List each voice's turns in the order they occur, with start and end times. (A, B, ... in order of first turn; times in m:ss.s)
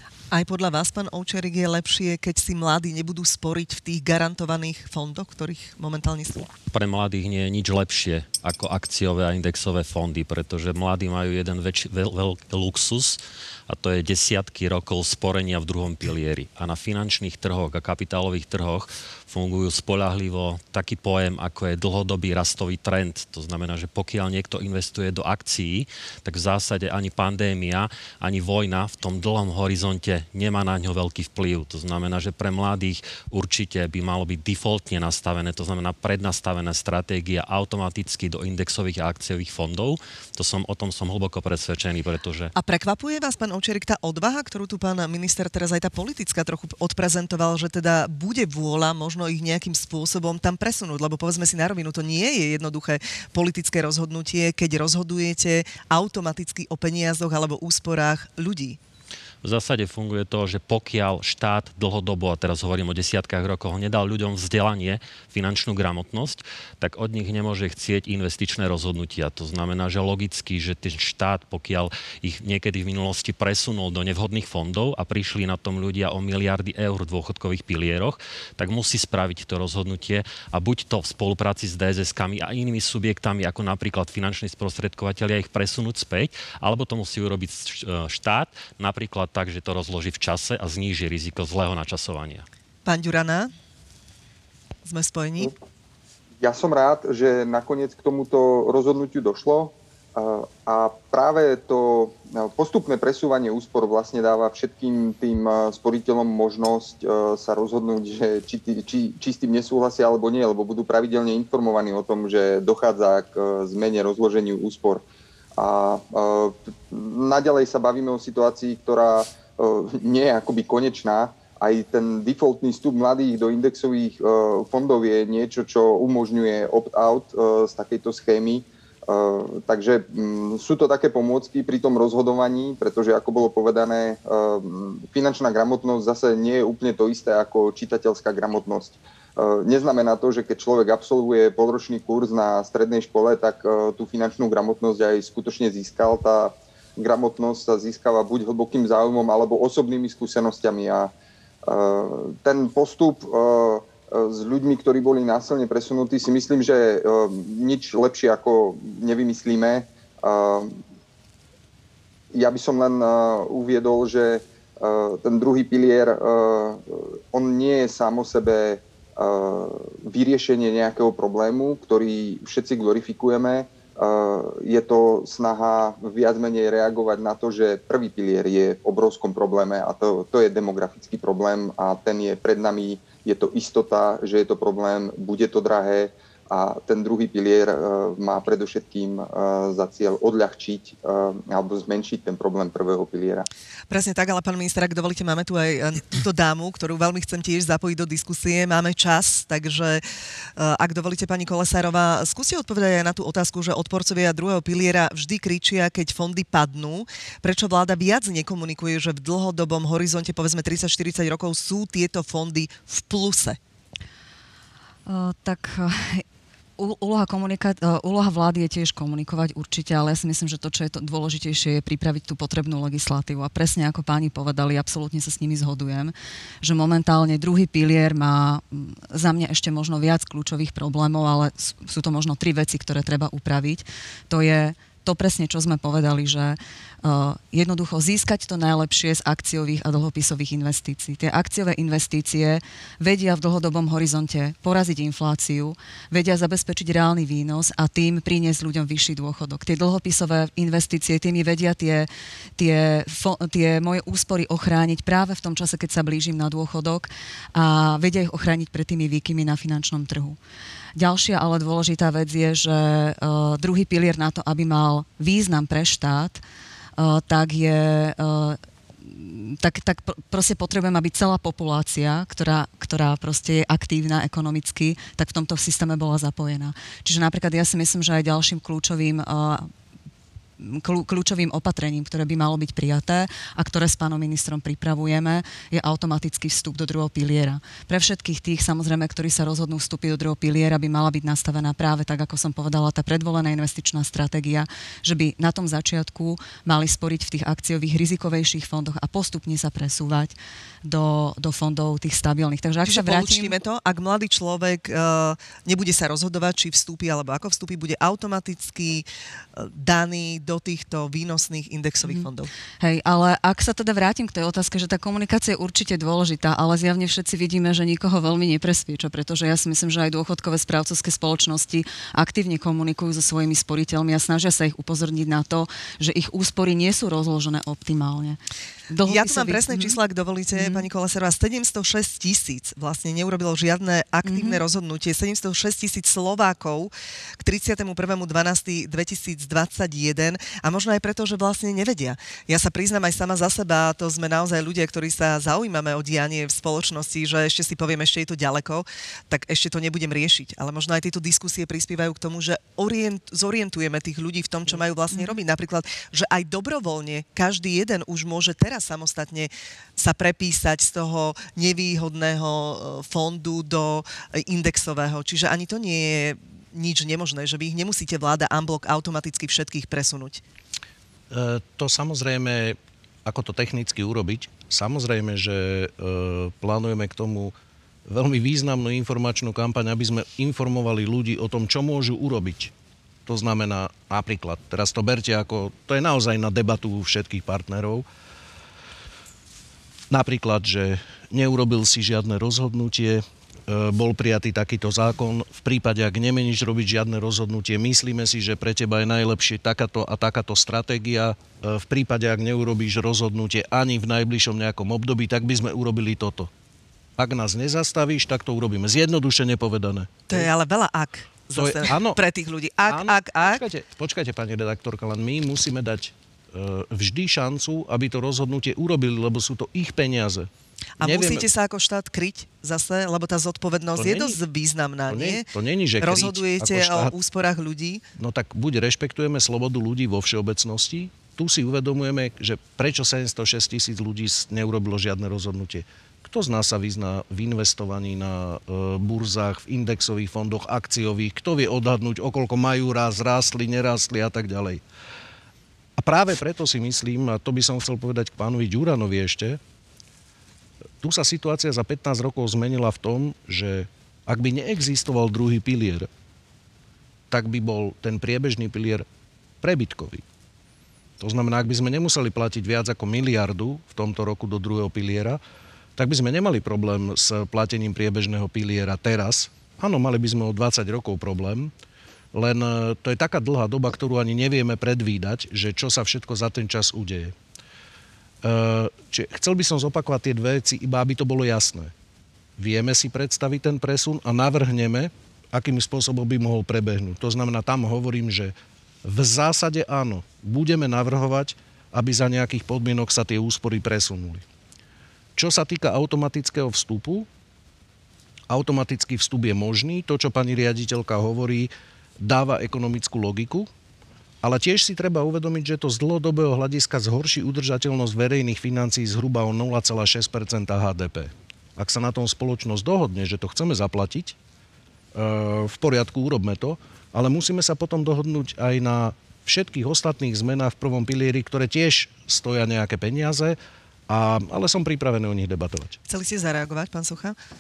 0:00.3-0:06.5 A
0:06.7-0:42.5 B
0:42.6-0:58.8 A
0:59.4-1:32.4 B
1:32.8-1:33.5 A
1:34.8-1:35.5 A
1:36.4-1:55.0 C
1:55.6-2:31.1 C
2:31.7-2:40.8 C
2:42.3-3:13.5 C
3:13.9-3:20.0 A
3:20.6-3:33.6 A
3:35.1-3:36.2 D
3:36.8-4:20.4 D
4:21.0-4:26.4 D
4:27.0-4:39.7 D
4:40.6-5:03.5 D
5:02.8-5:12.5 A
5:12.8-5:28.4 D
5:28.9-5:30.0 D
5:29.0-6:10.4 A
5:30.5-5:30.9 D
5:34.2-5:34.6 D
6:11.3-6:17.5 E
6:18.1-6:22.7 E
6:23.3-6:28.1 E
6:30.1-6:46.5 E
6:47.2-6:50.5 E
6:50.3-6:53.6 A
6:51.6-6:52.2 E
6:52.9-7:00.5 E
7:01.0-7:05.5 A
7:01.0-7:01.5 E
7:04.0-7:04.4 E
7:05.1-7:07.1 E
7:06.0-7:08.0 A
7:08.2-7:24.8 E
7:26.0-7:29.6 E
7:31.0-7:36.1 E
7:37.3-7:39.1 E
7:39.6-7:40.2 E
7:41.2-7:45.4 E
7:46.0-7:51.7 E
7:52.3-7:57.4 E
7:58.4-8:01.9 E
8:02.6-8:08.5 E
8:09.0-8:14.4 E
8:15.4-8:17.3 E
8:18.5-8:23.7 E
8:24.4-8:34.4 E
8:35.1-8:43.6 E
8:44.1-8:46.0 E
8:46.1-8:47.4 A